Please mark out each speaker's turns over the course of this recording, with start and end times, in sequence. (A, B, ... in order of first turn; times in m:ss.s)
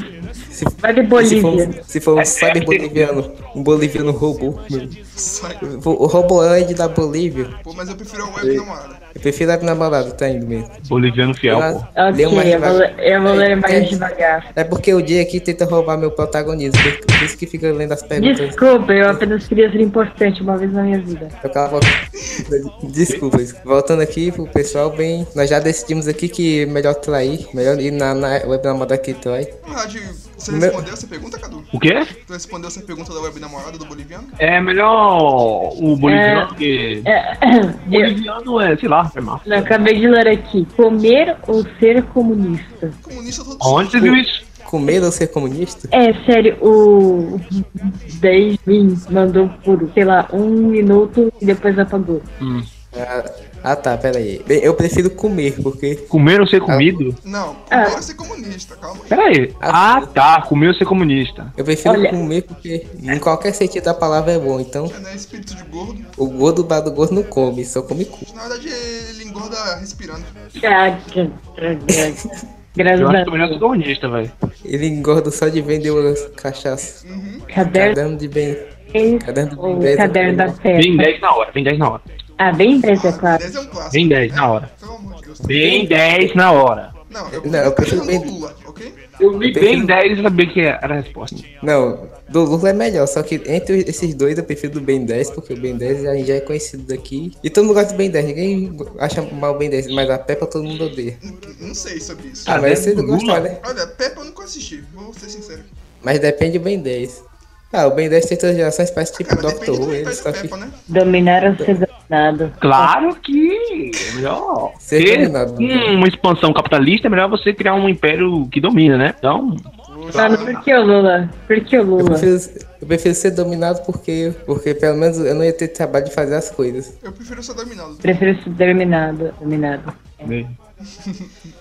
0:00.5-0:05.0 A
0:00.8-0:01.8 B
0:02.2-0:03.2 C
0:05.1-0:05.6 D
0:05.6-0:07.6 A
0:07.6-0:09.0 D
0:09.1-0:10.7 A
0:10.8-0:11.9 C
0:11.5-0:14.0 A
0:12.0-0:14.4 B
0:14.5-0:19.2 A
0:18.2-0:21.3 B
0:21.4-0:29.5 A
0:29.6-0:31.7 D
0:30.5-0:30.9 A
0:31.7-0:32.1 C
0:32.3-0:34.3 D
0:34.4-0:37.1 C
0:36.0-0:36.5 B
0:37.1-0:38.1 B
0:37.9-0:39.7 C
0:39.4-0:42.9 B
0:43.0-0:44.2 D
0:43.6-0:44.4 C
0:44.6-0:45.9 A
0:45.9-0:52.2 B
0:52.4-0:52.7 C
0:52.9-0:56.0 A
0:56.1-0:57.2 C
0:57.2-0:59.2 D
0:57.7-0:58.0 B
0:59.1-1:01.5 C
0:59.6-1:00.1 A
1:01.6-1:04.9 A
1:01.8-1:02.2 B
1:04.9-1:06.1 D
1:06.2-1:08.3 A
1:08.3-1:10.3 D
1:10.6-1:12.2 B
1:11.9-1:12.2 A
1:12.8-1:13.6 B
1:13.0-1:14.3 C
1:14.6-1:17.0 A
1:17.0-1:17.5 D
1:17.5-1:18.0 B
1:17.6-1:18.7 A
1:18.9-1:21.1 B
1:19.2-1:20.6 A
1:20.8-1:22.0 C
1:22.4-1:23.4 B
1:22.9-1:25.9 D
1:23.9-1:24.7 C
1:25.4-1:26.9 C
1:27.1-1:29.0 D
1:27.4-1:28.3 A
1:29.2-1:31.4 C
1:29.4-1:30.0 A
1:31.3-1:41.2 A
1:41.2-1:42.8 D
1:42.4-1:43.5 C
1:42.5-1:43.6 A
1:43.6-1:45.7 D
1:46.0-1:50.5 A
1:49.2-1:50.8 D
1:50.9-1:52.9 B
1:51.6-1:51.8 A
1:52.6-2:00.6 C
1:54.8-1:56.0 A
1:59.9-2:00.6 D
2:00.1-2:02.3 B
2:02.0-2:06.9 A
2:07.0-2:08.0 D
2:08.0-2:10.3 B
2:10.2-2:10.5 C
2:10.8-2:11.3 D